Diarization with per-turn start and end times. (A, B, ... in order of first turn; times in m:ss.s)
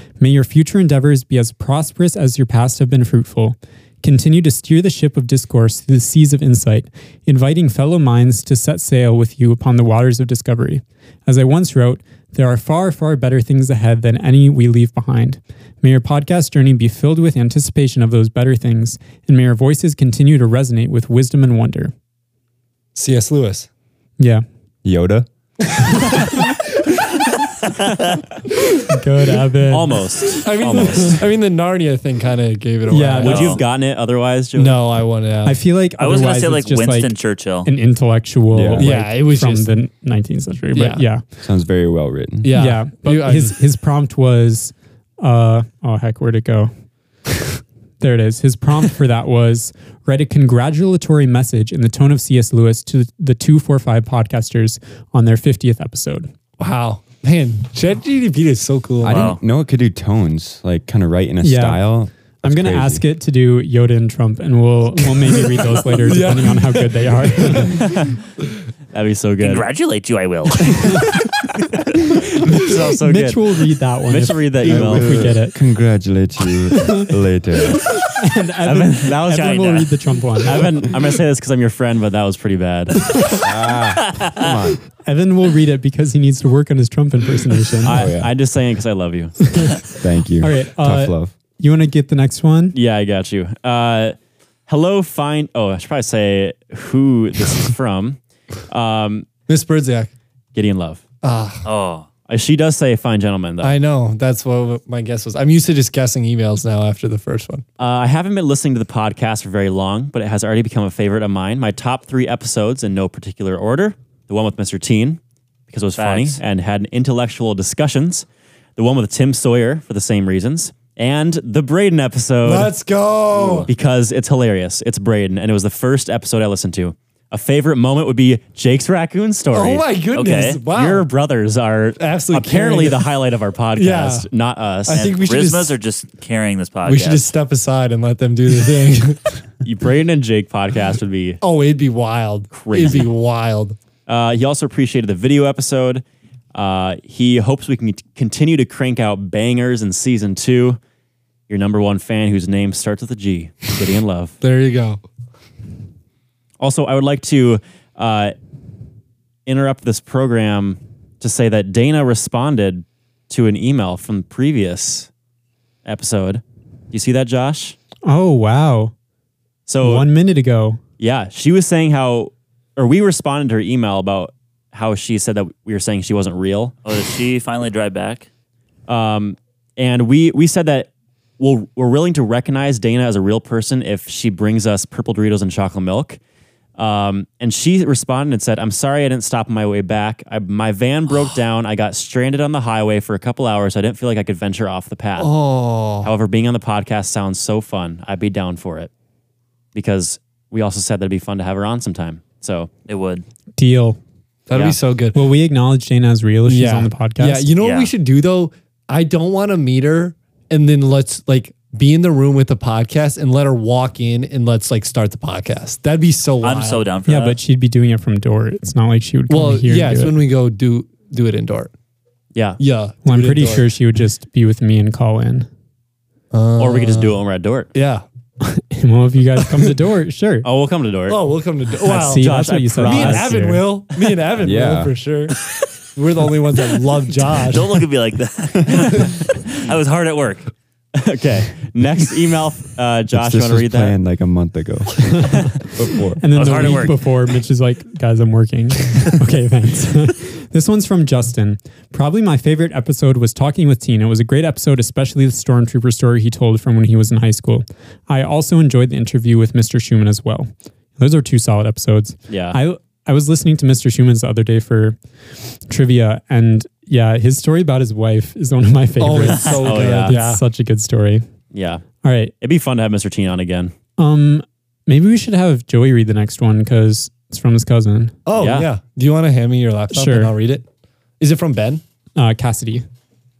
0:00.2-0:21.9 A
0:22.9-0:23.7 B
0:24.2-0:24.4 A
0:24.8-0:25.3 C
0:25.8-0:26.4 B
0:27.8-0:28.2 D
0:28.9-0:30.0 A
0:29.7-0:31.2 E
0:30.4-0:33.6 B
0:32.9-0:33.6 A
0:33.2-0:34.8 E
0:33.3-0:33.6 D
0:34.6-0:35.6 B
0:35.4-0:37.1 A
0:36.0-0:37.7 D
0:37.6-0:41.2 A
0:38.5-0:38.9 C
0:38.8-0:39.7 B
0:40.7-0:41.0 B
0:41.4-0:42.5 C
0:42.4-0:43.6 B
0:42.5-0:46.7 A
0:48.0-0:56.3 A
0:56.6-0:59.3 B
0:59.0-1:03.0 C
0:59.0-0:59.4 D
1:01.4-1:01.9 A
1:02.4-1:07.8 A
1:05.3-1:07.7 B
1:07.6-1:08.2 E
1:08.9-1:09.7 E
1:09.4-1:11.1 D
1:12.1-1:13.4 E
1:12.5-1:15.6 A
1:14.0-1:15.3 E
1:14.6-1:17.9 C
1:18.1-1:20.7 A
1:18.6-1:19.4 E
1:19.1-1:19.9 D
1:20.4-1:23.0 E
1:23.4-1:24.8 C
1:25.0-1:28.0 A
1:27.8-1:29.5 E
1:27.9-1:28.3 C
1:29.5-1:29.8 A
1:30.0-1:31.3 C
1:30.4-1:32.8 A
1:32.7-1:34.1 E
1:34.7-1:39.3 E
1:39.5-1:40.1 B
1:40.5-1:41.0 E
1:41.2-1:41.6 B
1:41.6-1:42.1 D
1:42.3-1:43.8 E
1:43.6-1:47.6 B
1:47.8-2:02.7 E
1:56.0-1:56.4 D
2:02.4-2:03.7 B
2:03.5-2:09.8 E
2:09.5-2:11.1 B
2:10.1-2:10.6 D
2:10.6-2:15.1 E
2:12.0-2:13.0 B
2:13.7-2:14.3 B
2:14.8-2:15.8 B
2:14.9-2:17.3 D
2:16.8-2:19.4 B
2:19.6-2:21.4 E
2:21.4-2:23.8 B
2:22.5-2:23.1 E
2:24.1-2:26.0 E
2:26.5-2:30.8 E
2:31.5-2:34.4 E
2:34.4-2:35.0 B
2:36.6-2:38.3 E
2:39.4-2:45.1 E
2:45.8-2:47.8 E
2:48.0-2:48.9 A
2:49.7-2:50.1 E
2:49.8-2:50.8 A
2:51.0-2:56.7 E
2:56.8-2:58.3 D
2:58.9-3:06.2 E
3:06.8-3:15.3 E
3:15.2-3:16.1 B
3:16.0-3:18.9 E
3:19.7-3:22.7 E
3:22.9-3:23.2 D
3:23.6-3:24.0 A
3:24.5-3:25.2 B
3:25.1-3:27.5 A
3:26.5-3:36.9 B
3:27.6-3:27.9 D
3:36.4-3:37.4 D
3:37.0-3:40.1 A
3:39.3-3:41.7 B
3:42.3-3:42.6 E
3:42.6-3:43.7 B
3:43.0-3:45.5 A
3:46.3-3:47.2 B
3:46.6-3:47.7 E
3:47.7-3:48.0 B
3:48.4-3:50.5 A
3:50.4-3:51.2 E
3:51.1-3:52.3 B
3:51.8-3:53.6 A
3:51.9-3:54.1 E
3:52.8-3:55.4 B
3:54.4-3:54.9 C
3:55.9-3:57.8 B
3:57.4-4:00.5 D
4:00.9-4:04.0 E
4:03.1-4:06.8 C
4:05.2-4:05.5 A
4:06.2-4:25.0 A
4:06.3-4:07.0 D
4:22.3-4:22.6 E
4:25.6-4:31.2 A
4:29.0-4:30.4 B
4:29.6-4:30.2 E
4:31.5-4:31.9 E
4:32.0-4:32.3 A
4:32.4-4:33.7 E
4:34.0-4:38.2 A
4:38.2-4:40.6 B
4:38.3-4:38.7 E
4:39.9-4:40.3 A
4:41.2-4:41.8 B
4:42.2-4:42.8 A